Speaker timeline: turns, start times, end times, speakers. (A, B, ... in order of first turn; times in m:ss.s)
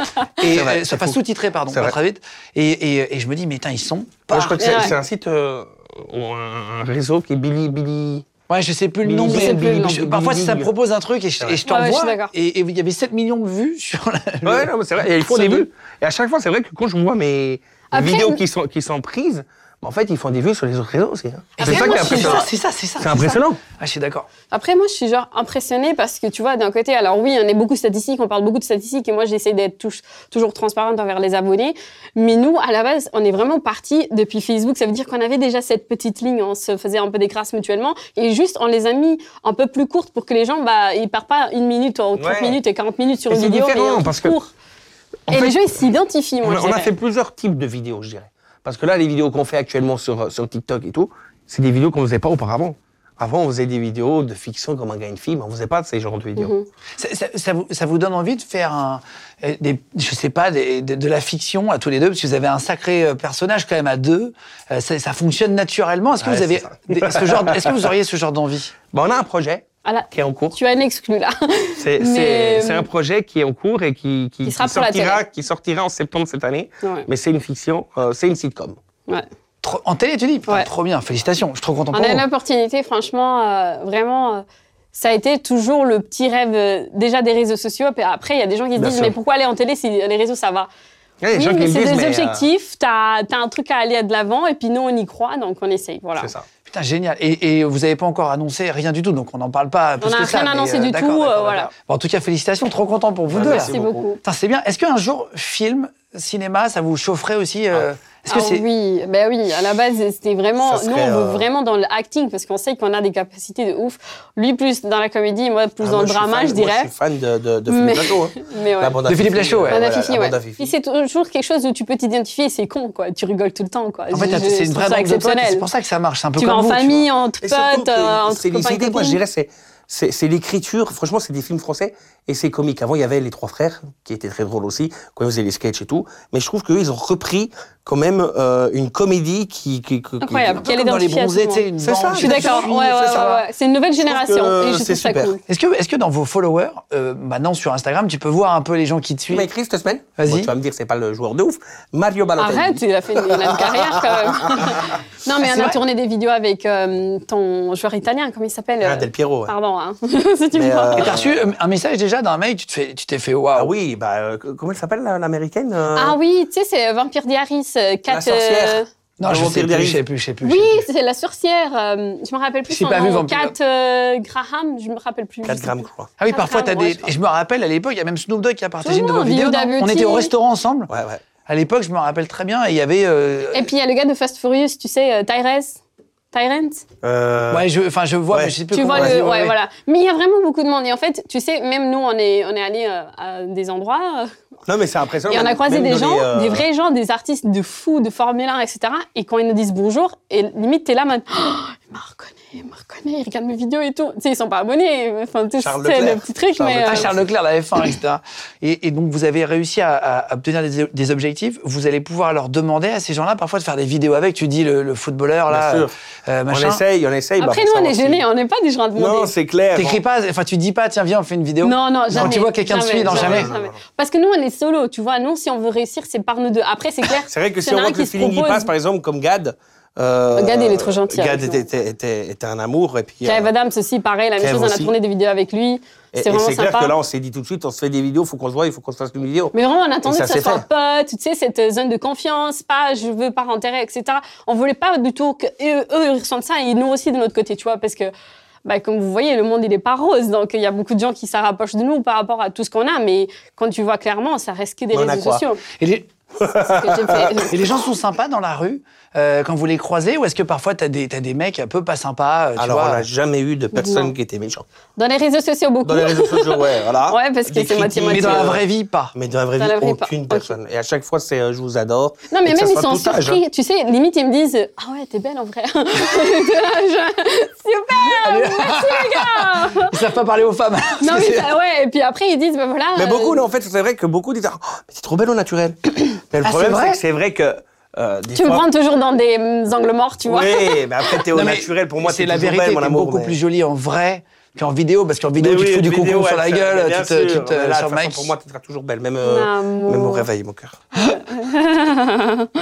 0:00.4-0:04.7 A
0:00.4-0:01.2 B
0:01.7-0:02.0 B
0:04.3-0:08.2 B
0:04.5-0:05.0 C
0:08.5-0:15.7 A
0:09.0-0:10.7 B
0:09.3-0:10.0 C
0:11.7-0:12.3 C
0:14.4-0:22.5 B
0:17.9-0:18.4 C
0:21.6-0:24.3 A
0:21.6-0:22.5 C
0:23.0-0:23.6 B
0:24.5-0:44.5 C
0:42.2-0:42.6 B
0:43.3-0:44.4 B
0:45.3-0:45.6 B
0:45.3-0:46.9 C
0:46.4-0:56.5 B
0:56.4-0:56.6 C
0:57.0-1:08.7 A
1:06.2-1:07.9 B
1:08.9-1:10.6 B
1:09.8-1:12.9 C
1:11.8-1:18.8 B
1:14.4-1:15.2 C
1:16.8-1:17.1 C
1:19.6-1:22.2 A
1:21.9-1:30.7 C
1:28.8-1:29.1 B
1:31.2-1:32.4 B
1:31.3-1:36.3 C
1:36.2-1:36.4 B
1:36.6-1:48.6 A
1:40.0-1:41.7 C
1:43.3-1:44.0 B
1:43.4-1:44.2 C
1:48.3-1:56.9 C
1:50.6-1:51.4 B
1:55.8-2:00.7 B
1:57.7-1:59.0 C
1:59.0-1:59.8 A
1:59.7-2:05.7 C
2:04.1-2:07.0 A
2:06.4-2:09.2 C
2:07.4-2:20.6 B
2:20.2-2:25.4 C
2:20.6-2:23.4 A
2:21.8-2:23.3 B
2:24.0-2:25.3 B
2:25.5-2:29.5 A
2:29.3-2:34.9 B
2:30.2-2:30.5 A
2:32.4-2:41.2 C
2:35.4-2:35.8 A
2:38.8-2:39.5 B
2:40.5-2:41.5 B
2:40.9-2:43.7 A
2:43.5-2:46.2 B
2:45.9-2:48.9 C
2:48.1-2:50.0 B
2:49.2-2:50.8 A
2:50.4-2:57.1 C
2:52.7-2:53.5 A
2:55.4-2:56.1 B
2:56.2-3:00.9 A
2:58.8-3:00.3 C
3:00.9-3:01.2 B
3:01.4-3:03.7 A
3:03.5-3:05.8 C
3:06.3-3:06.8 C
3:07.0-3:07.7 B
3:07.5-3:09.6 A
3:08.3-3:09.2 B
3:08.7-3:14.3 C
3:14.7-3:16.6 B
3:15.3-3:27.1 C
3:25.6-3:27.3 B
3:26.8-3:36.8 A
3:35.5-3:35.9 B
3:36.5-3:38.2 B
3:37.4-3:39.3 C
3:39.0-3:40.0 B
3:39.7-3:43.5 A
3:41.6-3:48.7 C
3:42.1-3:42.4 B
3:43.0-3:43.8 B
3:47.3-3:53.5 B
3:50.3-3:51.7 C
3:53.2-3:57.0 C
3:54.4-3:54.9 B
3:56.1-3:59.5 B
3:59.5-4:08.1 C
4:00.0-4:00.6 B
4:08.6-4:15.6 C
4:14.9-4:15.4 B
4:15.8-4:16.1 A
4:16.4-4:17.5 B
4:16.7-4:17.6 C
4:17.5-4:23.0 A
4:22.6-4:24.6 B
4:23.7-4:24.1 C
4:25.0-4:28.5 C
4:25.8-4:33.4 B
4:28.1-4:29.1 A
4:29.6-4:30.5 C
4:32.3-4:39.9 C
4:38.2-4:41.5 A
4:41.0-4:43.4 C
4:42.9-4:48.6 B
4:46.4-4:47.0 A
4:48.3-4:50.8 C
4:50.2-4:53.4 B
4:51.3-4:58.3 A
4:55.4-5:00.8 B
4:59.2-5:00.3 C
5:01.0-5:02.5 C